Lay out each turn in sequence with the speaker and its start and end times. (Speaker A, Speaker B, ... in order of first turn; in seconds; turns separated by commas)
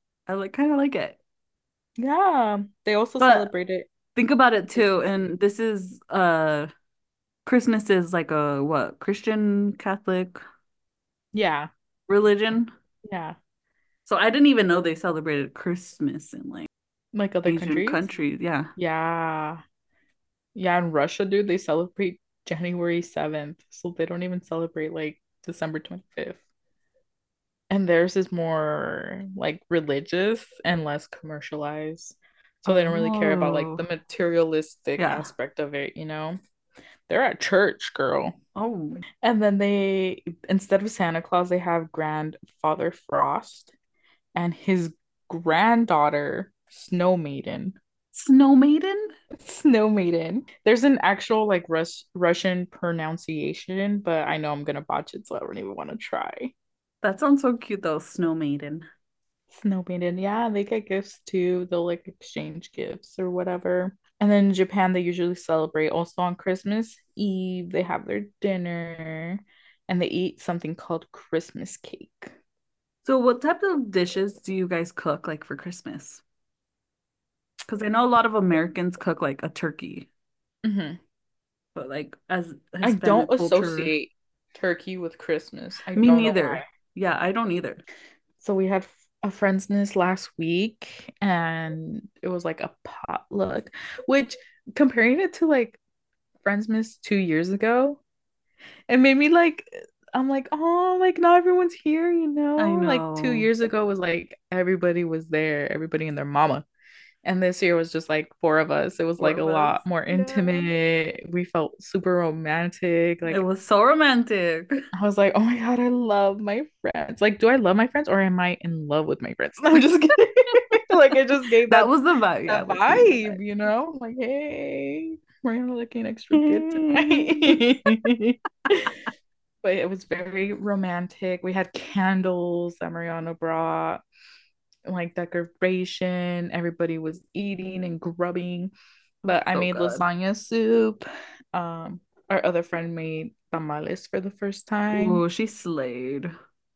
Speaker A: 0.3-1.2, Speaker B: 2.0-3.9, Speaker A: 3.2-3.5, Speaker A: 4.2-6.7, Speaker B: 4.8-5.0, Speaker A: 7.5-10.4, Speaker B: 11.3-11.7, Speaker A: 12.1-12.7, Speaker B: 13.0-13.3, Speaker A: 14.1-16.7, Speaker B: 17.1-18.1, Speaker A: 17.4-18.7, Speaker B: 18.8-19.6, Speaker B: 20.6-26.4, Speaker B: 27.7-36.4, Speaker A: 32.6-33.8, Speaker A: 35.0-35.3, Speaker B: 37.1-38.3, Speaker A: 38.5-39.0, Speaker B: 39.2-43.7, Speaker B: 44.3-47.8, Speaker A: 48.1-49.1, Speaker B: 49.4-56.5, Speaker A: 57.0-58.9, Speaker B: 59.5-72.3, Speaker A: 73.0-76.2, Speaker A: 77.7-80.1, Speaker B: 80.6-81.0, Speaker A: 81.7-83.9, Speaker B: 82.8-86.6, Speaker A: 85.9-87.8, Speaker B: 88.4-95.8, Speaker B: 96.4-98.0, Speaker B: 98.9-106.6, Speaker A: 102.6-103.5, Speaker B: 107.2-113.4, Speaker A: 109.2-110.7, Speaker A: 113.3-114.7, Speaker B: 115.0-121.9, Speaker A: 121.7-123.4, Speaker B: 122.5-129.0, Speaker A: 126.3-128.0, Speaker B: 129.6-134.0, Speaker B: 134.8-138.7, Speaker B: 139.2-145.2, Speaker A: 139.5-140.0, Speaker A: 144.9-146.3